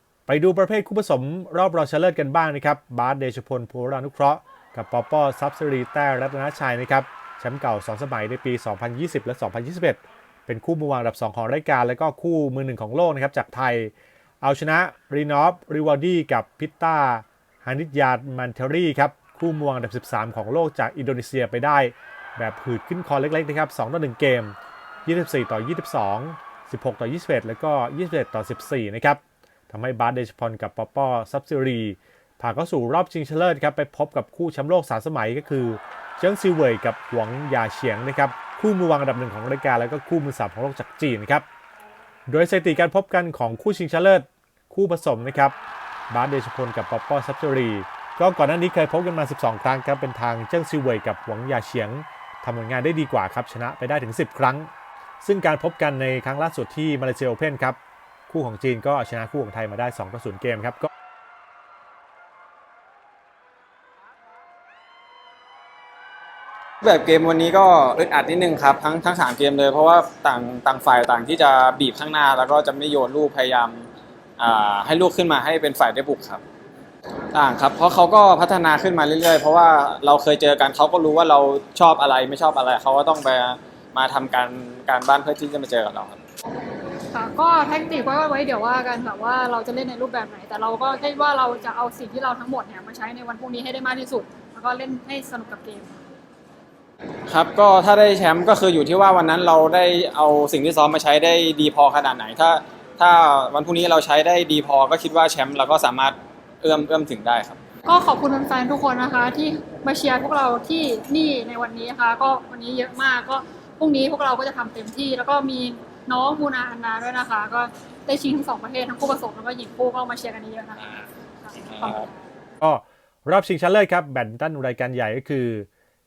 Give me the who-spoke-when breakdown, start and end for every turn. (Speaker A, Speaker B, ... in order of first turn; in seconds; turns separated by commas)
Speaker A: 0.3-41.4, Speaker A: 42.3-45.5, Speaker A: 46.1-54.7, Speaker A: 55.2-57.8, Speaker A: 58.3-60.9, Speaker B: 66.8-76.4, Speaker B: 77.3-86.2, Speaker C: 87.1-96.0, Speaker B: 97.3-107.6, Speaker C: 107.8-120.9, Speaker C: 121.4-122.1, Speaker B: 121.7-122.1, Speaker A: 122.6-125.7